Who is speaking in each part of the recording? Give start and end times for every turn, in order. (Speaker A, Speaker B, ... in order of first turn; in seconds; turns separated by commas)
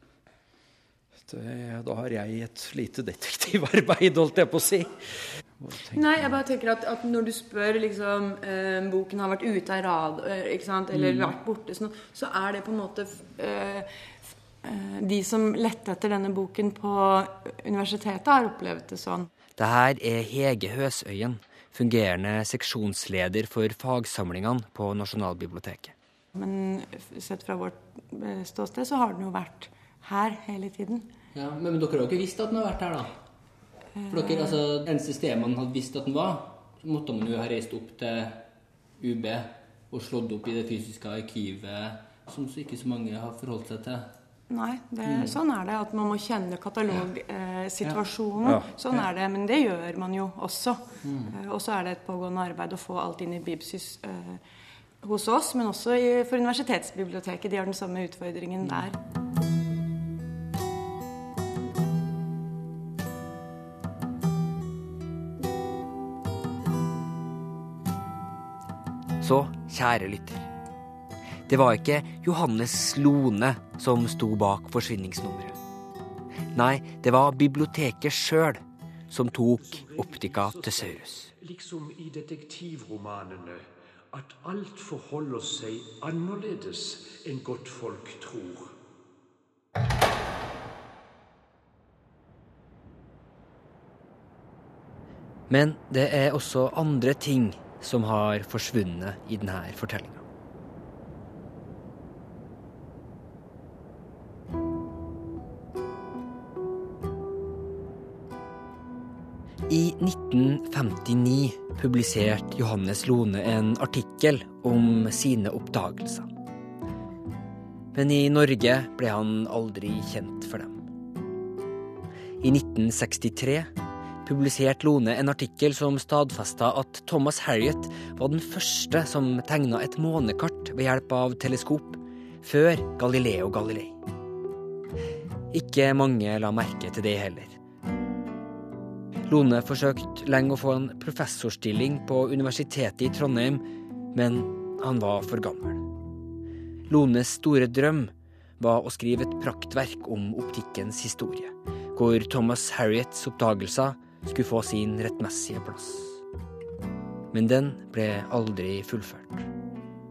Speaker A: 1.3-5.0, Speaker A: 5.6-6.3, Speaker B: 5.9-13.9, Speaker A: 10.9-11.4, Speaker B: 14.6-19.3, Speaker C: 19.6-25.9, Speaker B: 26.4-31.1, Speaker D: 31.4-33.1, Speaker B: 34.0-34.6, Speaker D: 34.1-38.4, Speaker D: 39.0-44.1, Speaker B: 44.5-54.4, Speaker D: 45.0-45.4, Speaker A: 48.4-49.0, Speaker D: 51.0-51.4, Speaker B: 55.0-59.0, Speaker C: 69.2-70.5, Speaker C: 71.5-75.6, Speaker C: 76.5-81.3, Speaker E: 79.6-88.7, Speaker C: 95.5-100.2, Speaker C: 109.7-116.3, Speaker C: 117.9-120.8, Speaker C: 122.4-123.7, Speaker C: 124.2-134.0, Speaker C: 135.5-137.6, Speaker C: 139.3-145.8, Speaker C: 146.9-156.2, Speaker C: 157.3-159.5